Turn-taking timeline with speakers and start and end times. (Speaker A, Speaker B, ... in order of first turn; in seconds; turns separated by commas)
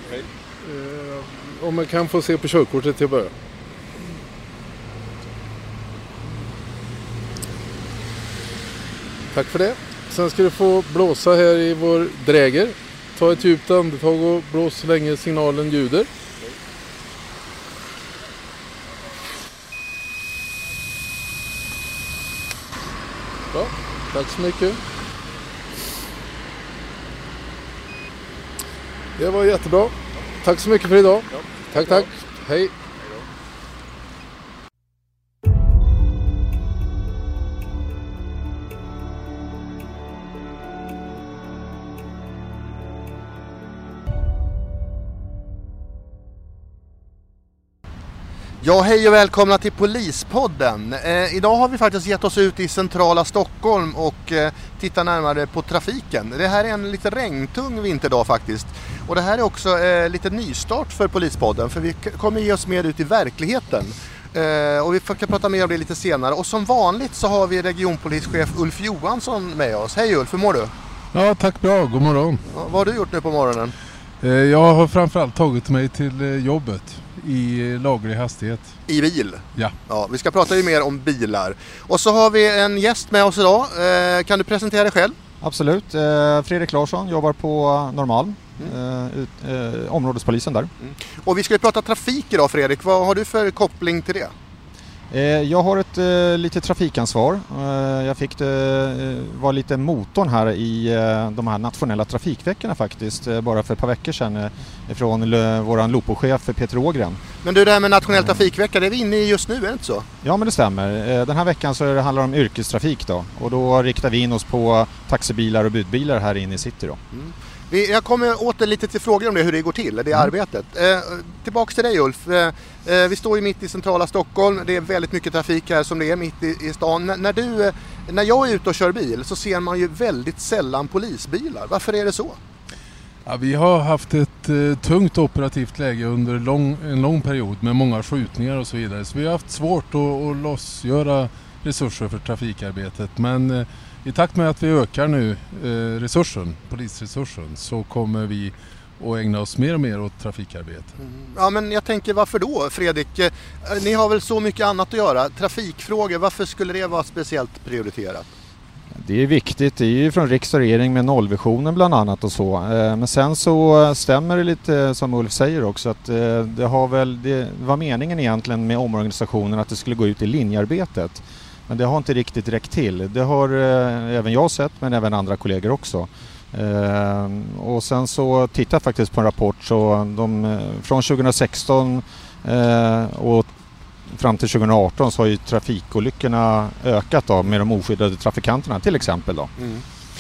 Speaker A: 0.6-3.3, Speaker A: 9.3-16.1, Speaker A: 23.5-24.8, Speaker A: 29.2-32.7, Speaker B: 48.6-70.7, Speaker A: 71.1-72.4, Speaker B: 72.5-73.7, Speaker A: 74.2-78.7, Speaker B: 78.9-85.2, Speaker C: 85.4-90.7, Speaker B: 90.8-94.3, Speaker C: 95.1-107.3, Speaker B: 107.4-110.1, Speaker C: 110.2-117.0, Speaker B: 117.1-132.4, Speaker A: 133.2-150.9, Speaker B: 151.0-158.3, Speaker C: 159.0-183.5, Speaker C: 184.1-189.5, Speaker B: 189.6-189.8